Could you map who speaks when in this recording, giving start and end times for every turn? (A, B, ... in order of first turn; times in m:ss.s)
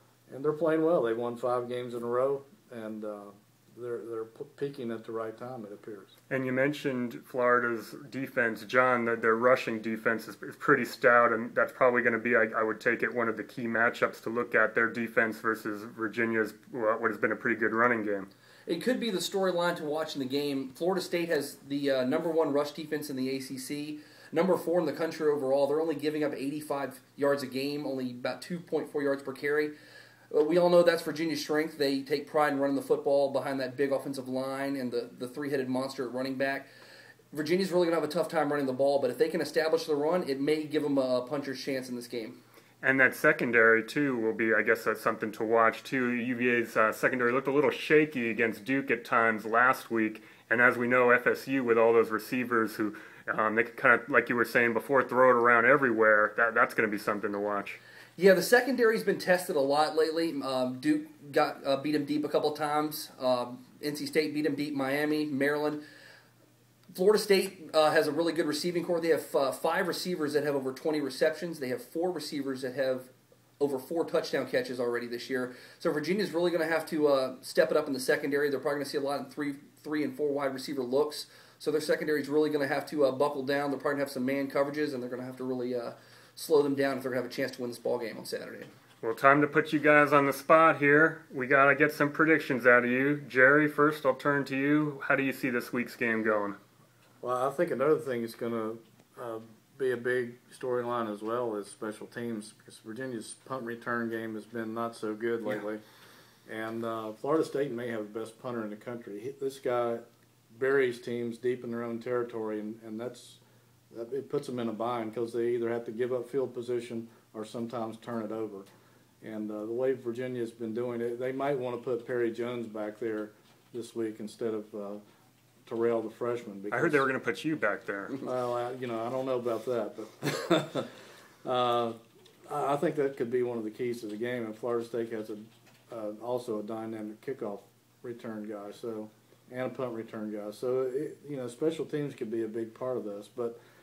0:00.3-0:06.1 A
0:06.3-0:18.3 B
0:18.7-0:29.7 C
0:30.3-0:36.7 C
0:37.3-0:42.4 C
0:42.8-0:57.8 B
0:58.2-1:05.8 C
1:06.9-1:28.7 C
1:29.0-1:36.6 B
1:37.2-1:45.8 A
1:46.5-1:58.7 A
1:59.2-2:05.0 A
2:05.7-2:07.0 A
2:06.7-2:08.2 B
2:08.2-2:10.9 A
2:11.4-2:23.6 A